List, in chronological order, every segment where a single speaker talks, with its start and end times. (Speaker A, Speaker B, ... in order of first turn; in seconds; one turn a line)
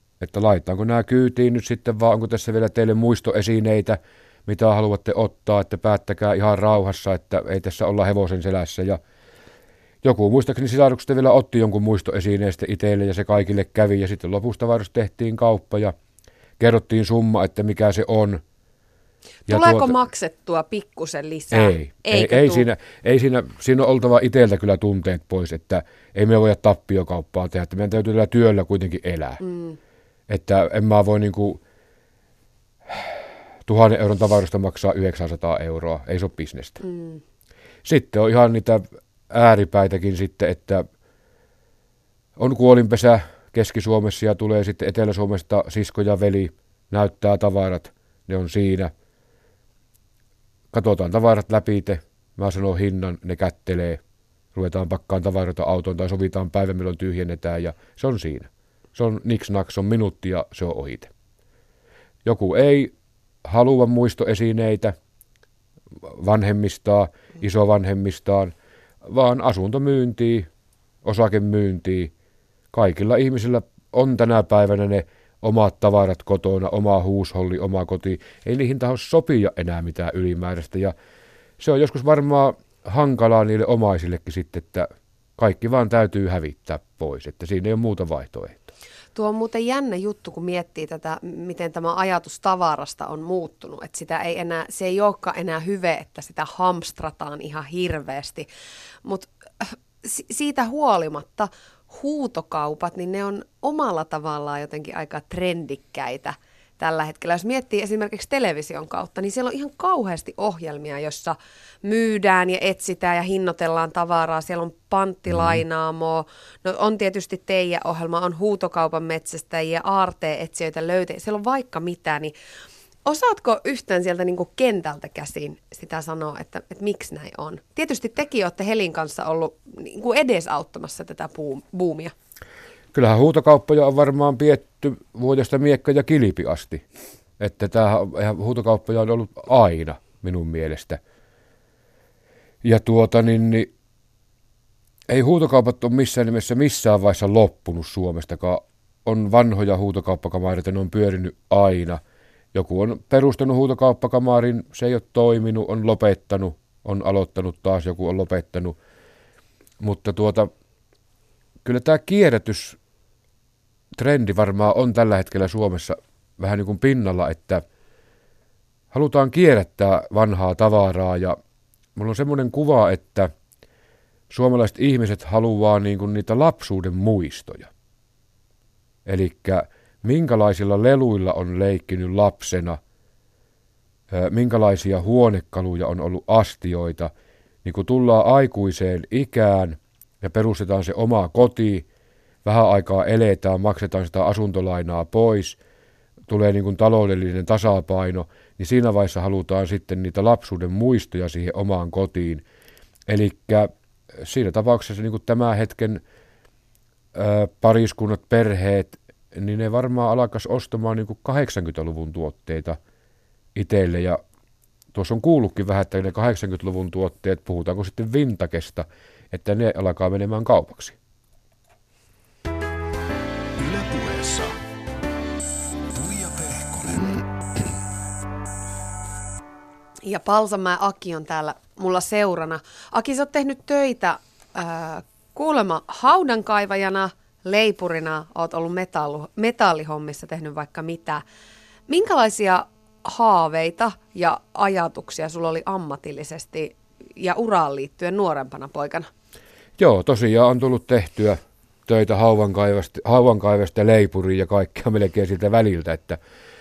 Speaker A: 0.2-9.0
Speaker A: 10.0-15.9
Speaker A: 16.6-18.4
Speaker B: 19.5-22.7
Speaker A: 19.5-20.0
Speaker A: 21.5-29.4
Speaker B: 29.4-29.8
Speaker A: 30.3-31.6
Speaker A: 32.9-36.8
Speaker B: 36.8-37.2
Speaker A: 37.9-40.9
Speaker A: 42.4-48.9
Speaker A: 50.7-54.0
Speaker A: 54.5-61.1
Speaker A: 62.2-62.9
Speaker A: 63.5-65.0
Speaker A: 66.0-70.5
Speaker A: 71.0-72.1
Speaker A: 72.7-80.9
Speaker A: 81.6-88.7
Speaker B: 89.1-98.5
Speaker B: 99.0-122.3
Speaker B: 123.1-132.1
Speaker A: 132.9-136.8
Speaker A: 137.4-141.0
Speaker A: 142.6-143.7
Speaker A: 145.1-152.0
Speaker A: 152.5-158.8
Speaker A: 159.8-160.5
Speaker A: 161.6-162.8
Speaker A: 163.9-167.6
Speaker A: 168.9-171.4
Speaker A: 171.9-173.3
Speaker A: 174.3-177.7
Speaker A: 179.1-182.8
Speaker A: 184.1-187.1
Speaker A: 187.6-191.9
Speaker A: 192.4-195.6
Speaker A: 196.3-202.4
Speaker A: 203.1-206.0
Speaker A: 207.1-212.8
Speaker A: 213.6-214.2
Speaker A: 214.9-221.0
Speaker C: 223.6-224.6
Speaker C: 225.9-227.2
Speaker B: 230.0-241.2
Speaker B: 241.9-249.1
Speaker A: 249.8-256.2